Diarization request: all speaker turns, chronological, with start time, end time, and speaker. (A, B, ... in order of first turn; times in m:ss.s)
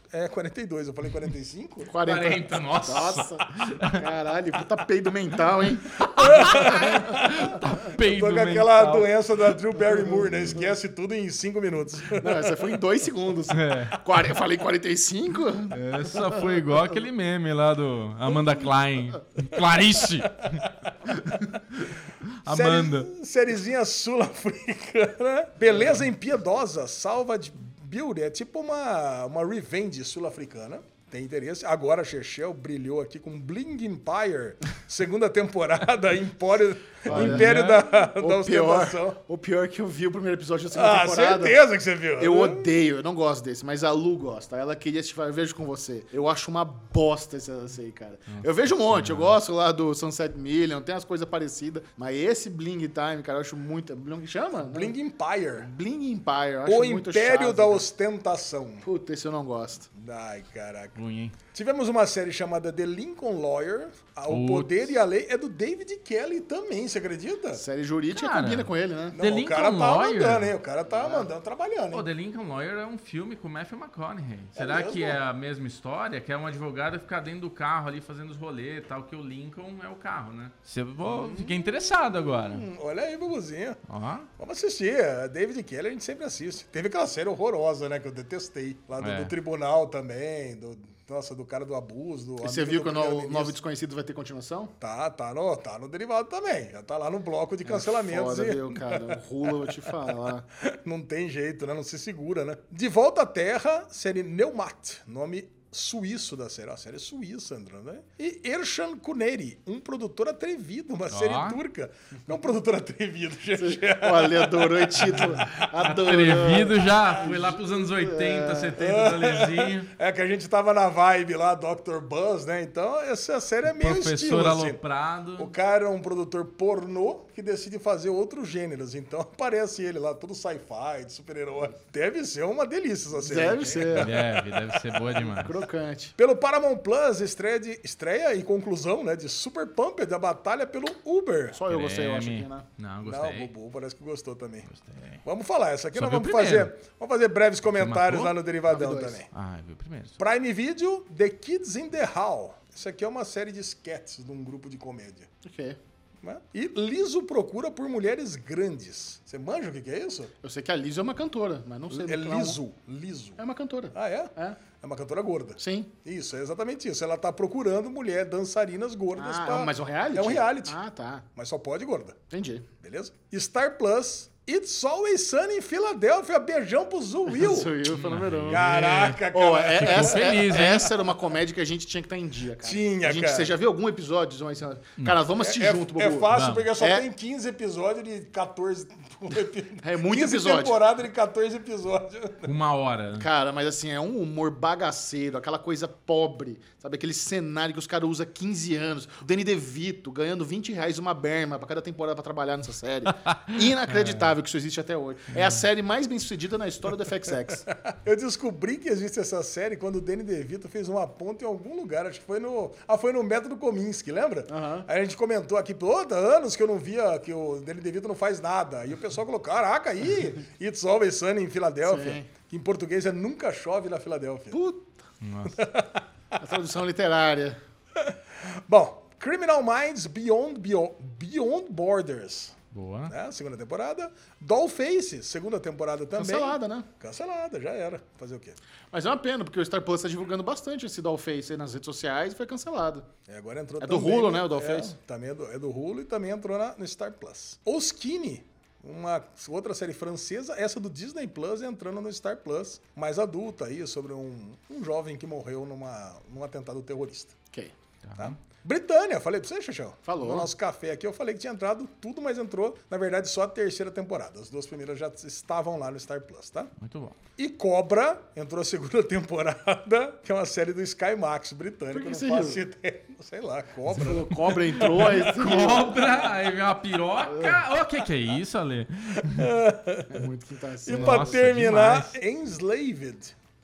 0:00.1-0:01.9 A
0:01.9-0:06.7 B
0:02.0-0:04.0 C
0:06.0-0:09.1 C
0:06.0-0:12.8 A
0:12.2-0:16.4 B
0:13.5-0:14.0 C
0:15.7-0:20.7 C
0:21.3-0:23.1 C
0:22.4-0:39.2 A
0:37.1-0:41.6 B
0:37.1-0:37.9 C
0:40.7-0:42.7 A
0:42.2-0:54.9 B
0:48.3-0:49.3 C
0:54.7-0:55.7 A
0:55.6-0:57.9 B
0:56.7-0:58.9 A
0:58.8-0:59.9 B
1:00.0-1:01.0 A
1:01.0-1:01.4 C
1:01.5-1:07.6 A
1:04.3-1:04.9 C
1:07.5-1:09.2 B
1:08.1-1:10.5 C
1:09.1-1:12.1 A
1:10.9-1:11.2 B
1:11.9-1:22.7 C
1:14.6-1:15.2 A
1:21.0-1:23.8 A
1:23.9-1:24.3 C
1:24.4-1:33.6 A
1:29.0-1:29.3 C
1:32.4-1:34.7 B
1:34.8-1:39.9 A
1:37.6-1:40.4 B
1:40.6-1:55.5 A
1:51.1-1:51.6 C
1:53.6-1:58.8 B
1:55.5-1:59.9 C
1:58.8-2:04.8 A
2:03.7-2:05.5 C
2:05.4-2:14.2 A
2:13.2-2:14.5 B
2:13.9-2:15.6 C
2:15.0-2:16.1 B
2:16.2-2:21.6 A
2:21.5-2:22.7 B
2:21.7-2:23.5 C
2:23.0-2:24.7 A
2:24.7-2:25.2 C
2:25.2-2:29.3 A
2:25.9-2:26.7 C
2:27.7-2:28.3 C
2:28.7-2:29.2 B
2:29.3-2:30.2 C
2:30.2-2:35.3 A
2:35.4-2:35.8 B
2:36.2-2:40.3 A
2:40.4-2:42.6 B
2:41.9-2:43.4 A
2:43.4-2:44.6 B
2:43.9-2:50.8 A
2:45.6-2:45.9 B
2:49.2-2:51.3 B
2:51.3-2:52.2 A
2:52.3-2:52.7 B
2:52.8-2:57.8 A
2:57.3-2:58.6 B
2:57.9-2:59.2 C
2:58.5-3:00.9 A
2:59.3-3:07.1 B
2:59.8-3:00.9 C
3:02.6-3:03.5 A
3:05.0-3:05.2 C
3:05.4-3:12.5 A
3:06.3-3:06.7 C
3:09.8-3:10.8 B
3:12.4-3:13.3 C
3:13.2-3:27.7 B
3:23.1-3:24.3 C
3:25.3-3:25.6 C
3:27.7-3:44.6 A
3:34.5-3:34.9 B
3:41.8-3:42.3 B
3:44.5-3:44.9 B
3:45.2-3:45.6 C
3:45.5-3:46.0 A
3:46.4-3:47.6 B
3:48.0-3:52.6 A
3:52.7-3:53.1 C
3:53.1-3:58.6 A
3:56.2-3:56.9 B
3:58.9-4:03.1 B
4:03.3-4:17.3 A
4:03.8-4:04.9 B
4:18.0-4:18.4 C
4:18.2-4:26.7 A
4:20.1-4:20.5 B
4:26.8-4:27.2 C
4:27.4-4:35.0 A
4:31.9-4:32.6 B
4:33.9-4:36.0 B
4:34.7-4:39.5 C
4:39.2-4:40.3 A
4:40.1-4:41.4 B
4:40.8-4:43.3 A
4:40.9-4:42.2 C